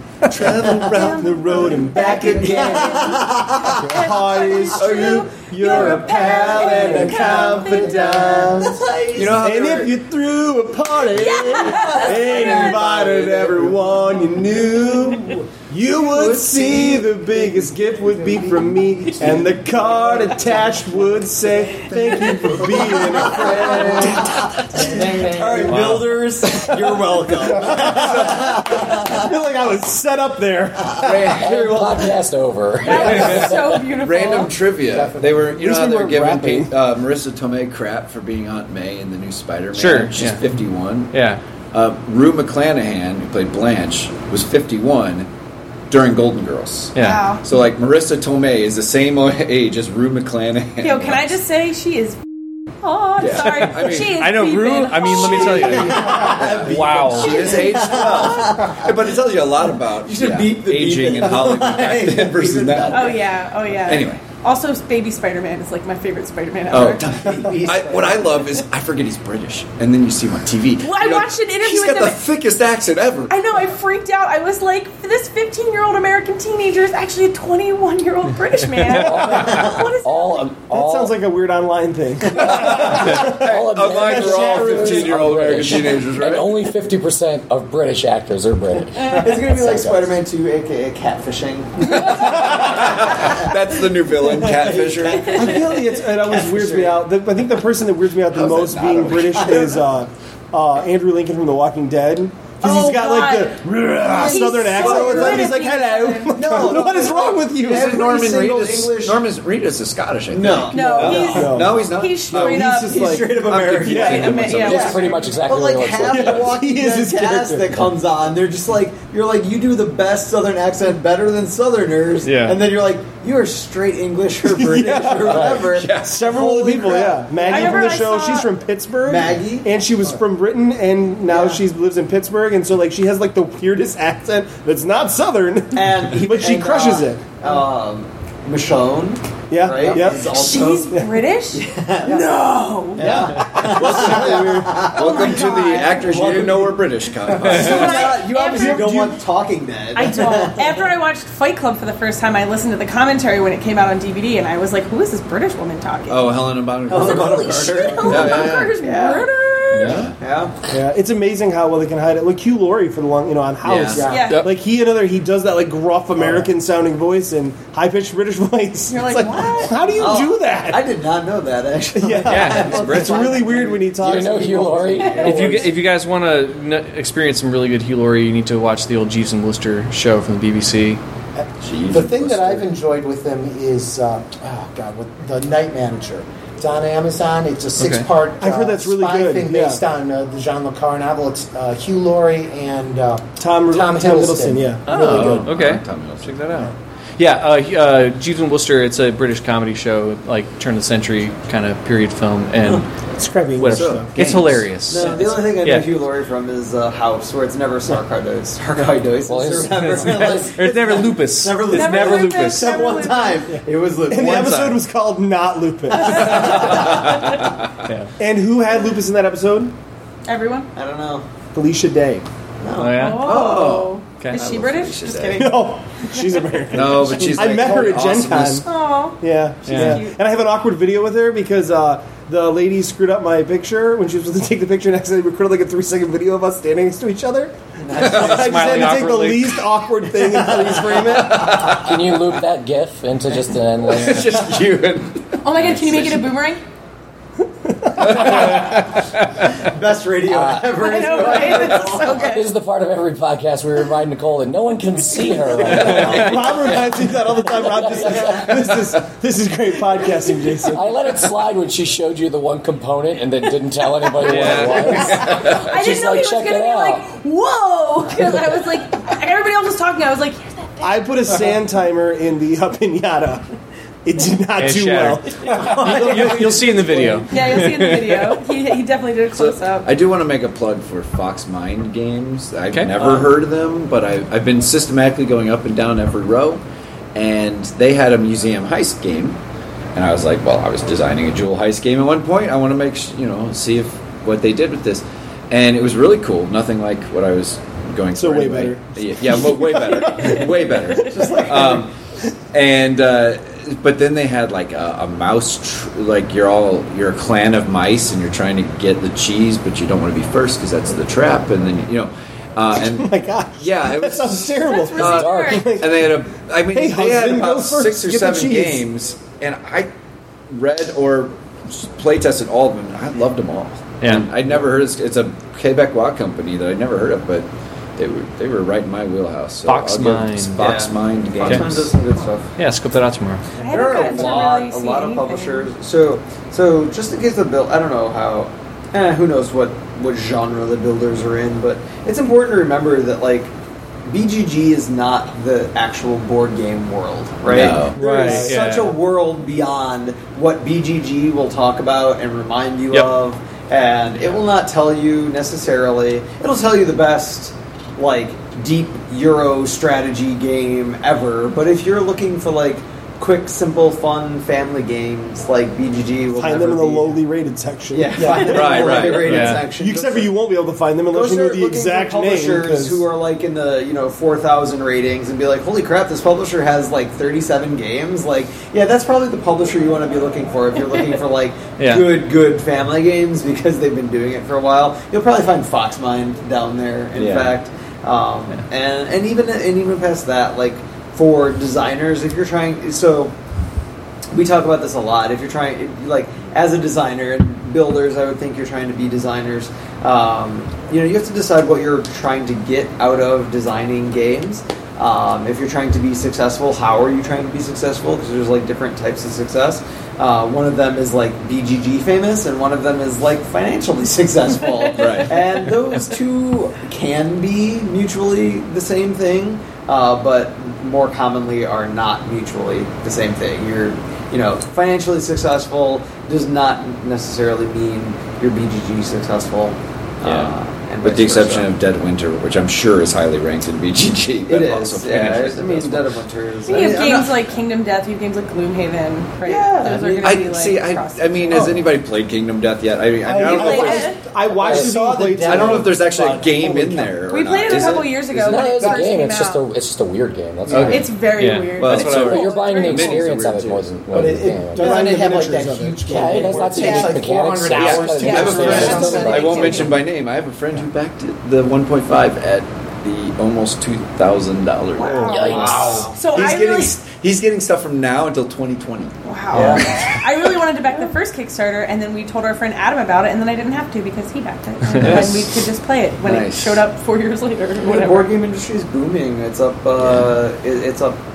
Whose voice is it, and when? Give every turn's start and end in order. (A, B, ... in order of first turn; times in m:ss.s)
0:00.3-0:08.8 A
0:00.3-0:01.3 B
0:00.4-0:01.0 C
0:00.9-0:08.5 D
0:01.6-0:03.8 C
0:04.8-0:05.2 B
0:04.8-0:09.5 C
0:08.0-0:08.6 E
0:09.1-0:09.9 B
0:09.4-0:25.0 A
0:11.1-0:12.8 D
0:11.1-0:15.0 C
0:12.9-0:13.9 B
0:16.0-0:17.4 C
0:17.6-0:19.5 E
0:19.2-0:20.8 C
0:22.0-0:22.5 D
0:22.2-0:25.8 E
0:22.3-0:29.3 C
0:25.6-0:26.1 F
0:27.4-0:31.4 A
0:28.0-0:28.4 B
0:31.0-0:32.0 B
0:31.0-0:31.4 C
0:31.3-0:33.8 G
0:32.8-0:34.7 D
0:33.0-0:41.1 B
0:34.9-0:35.6 E
0:35.4-0:36.7 A
0:39.7-0:40.4 F
0:41.1-0:41.4 F
0:41.7-0:45.3 B
0:45.9-0:51.3 B
0:46.9-0:47.3 F
0:47.0-0:47.5 D
0:50.8-0:52.2 D
0:52.8-0:56.3 D
0:53.2-0:54.2 B
0:54.0-0:57.6 F
0:55.3-1:03.2 C
0:56.1-1:04.3 B
1:02.9-1:07.2 D
1:06.7-1:13.6 B
1:06.8-1:08.3 C
1:10.8-1:12.3 D
1:13.3-1:20.5 D
1:18.8-1:21.2 G
1:19.5-1:19.8 C
1:20.7-1:25.4 A
1:22.3-1:26.6 B
1:22.4-1:30.2 G
1:29.0-1:29.2 D
1:29.1-1:37.1 C
1:32.0-1:35.4 B
1:35.3-1:48.2 A
1:38.3-1:39.7 B
1:39.4-1:39.8 C
1:42.6-1:46.5 D
1:44.2-1:45.6 C
1:46.3-1:49.3 C
1:47.6-1:52.8 B
1:50.3-1:51.7 C
1:50.7-1:53.2 D
1:50.7-1:54.7 A
1:52.7-2:07.9 C
1:53.4-1:54.9 B
1:53.9-1:55.4 D
1:54.6-1:56.6 G
1:56.1-1:57.8 A
2:02.2-2:02.6 F
2:04.5-2:17.2 A
2:05.3-2:06.3 B
2:07.4-2:08.5 D
2:09.0-2:09.7 C
2:11.2-2:11.6 C
2:15.7-2:21.0 C
2:19.5-2:20.3 A
2:20.0-2:23.4 D
2:21.5-2:22.3 C
2:22.9-2:30.9 C
2:23.0-2:24.9 A
2:24.9-2:26.3 D
2:24.9-2:28.1 B
2:27.4-2:29.2 D
2:28.5-2:29.1 A
2:29.9-2:40.0 D
2:36.1-2:38.8 B
2:36.9-2:39.3 C
2:39.7-2:40.2 B
2:39.8-2:40.1 F
2:40.2-2:40.6 C
2:40.6-2:50.8 A
2:43.6-2:44.1 B
2:44.0-2:44.4 D
2:44.0-2:44.3 E
2:44.1-2:44.5 F
2:48.9-2:50.0 D
2:49.4-2:55.6 C
2:51.9-2:55.7 A
2:52.2-2:53.4 F
2:54.0-2:55.4 G
2:55.2-3:01.0 F
3:01.4-3:15.5 E
3:01.6-3:02.7 B
3:07.8-3:08.1 F
3:08.4-3:09.8 A
3:13.4-3:14.9 A
3:14.9-3:22.9 F
3:14.9-3:16.5 B
3:23.2-3:24.2 A
3:23.6-3:25.9 F
3:23.7-3:24.7 B
3:24.9-3:34.7 C
3:29.3-3:30.5 G
3:29.8-3:32.8 F
3:31.7-3:33.5 D
3:33.5-3:36.6 A
3:34.4-3:34.7 F
3:35.9-3:36.8 D
3:36.2-3:37.0 C
3:36.8-3:37.2 B
3:37.8-3:38.1 F
3:38.2-3:39.7 A
3:40.2-3:40.7 D
3:40.7-3:41.3 C
3:41.5-3:42.2 A
3:42.6-3:43.6 C
3:42.8-3:43.4 F
3:43.0-3:46.6 D
3:43.2-3:45.5 B
3:45.3-3:48.7 A
3:46.7-3:48.7 B
3:47.2-3:47.6 C
3:48.6-3:50.2 D
3:49.2-4:01.5 A
3:49.7-3:50.0 F
3:57.8-3:59.0 C
3:58.0-3:59.6 F
3:58.1-3:58.4 B
4:00.1-4:01.3 C
4:01.2-4:02.0 B
4:01.6-4:04.3 G
4:03.9-4:06.4 B
4:05.4-4:06.6 D
4:07.6-4:08.4 A
4:08.0-4:09.3 B
4:09.6-4:12.3 C
4:10.3-4:10.8 G
4:10.8-4:12.5 D
4:12.2-4:18.5 G
4:15.6-4:16.7 B
4:15.7-4:20.9 A
4:18.5-4:18.9 B
4:20.7-4:27.0 G
4:24.2-4:25.1 F
4:24.2-4:25.8 B
4:25.0-4:31.0 D
4:30.8-4:33.4 A
4:34.0-4:37.2 A
4:34.6-4:38.4 F
4:35.4-4:37.0 C
4:37.3-4:39.9 D
4:39.3-4:46.6 B
4:42.7-4:43.1 F
4:43.0-4:43.3 C
4:47.1-4:49.4 B
4:49.9-5:01.9 B
4:58.1-5:00.4 A
4:59.7-5:01.4 D
5:01.0-5:01.8 A
5:01.1-5:01.8 C
5:02.5-5:19.9 B
5:12.8-5:16.2 A
5:14.6-5:15.8 D
5:15.1-5:15.6 G
5:16.7-5:18.8 A
5:20.5-5:31.9 B
5:24.0-5:24.3 F
5:29.7-5:30.7 F
5:30.6-5:32.5 C
5:31.4-5:31.7 F
5:32.6-5:33.6 F
5:33.6-5:35.7 D
5:33.6-5:43.5 C
5:44.1-6:07.2 C
5:47.4-5:48.0 B
5:47.9-5:49.0 F
5:48.1-5:48.5 A
5:48.2-5:48.5 E
6:06.3-6:13.0 A
6:07.9-6:10.4 C
6:08.2-6:08.8 E
6:08.4-6:09.5 B
6:09.1-6:09.6 F
6:11.1-6:33.3 C
6:21.8-6:22.2 F
6:27.1-6:27.6 B
6:34.3-7:11.7 C
6:54.6-6:55.2 D
6:54.9-6:55.3 B
7:10.2-7:16.2 B
7:14.4-7:17.5 C
7:16.6-7:21.8 D
7:19.4-7:20.3 C
7:20.0-7:24.1 B
7:21.5-7:21.9 E
7:23.2-7:27.3 E
7:23.4-7:24.2 D
7:23.5-7:25.9 A
7:25.4-7:28.8 B
7:27.3-7:29.7 D
7:28.4-7:31.1 G
7:30.7-7:32.8 F
7:30.7-7:31.0 B
7:30.8-7:33.2 D
7:31.8-7:33.9 B
7:32.0-7:34.9 G
7:34.1-7:39.9 E
7:34.7-7:36.8 A
7:36.1-7:39.7 G
7:36.7-7:37.2 D
7:37.7-7:50.1 B
7:38.2-7:40.0 D
7:45.0-7:47.0 D
7:45.2-7:46.1 G
7:45.5-7:46.2 C
7:49.2-7:58.3 D
7:49.5-7:49.8 C
7:54.9-7:55.2 F
7:55.0-7:55.5 B
7:56.2-7:56.8 B
7:57.8-8:01.2 C
8:00.0-8:00.3 B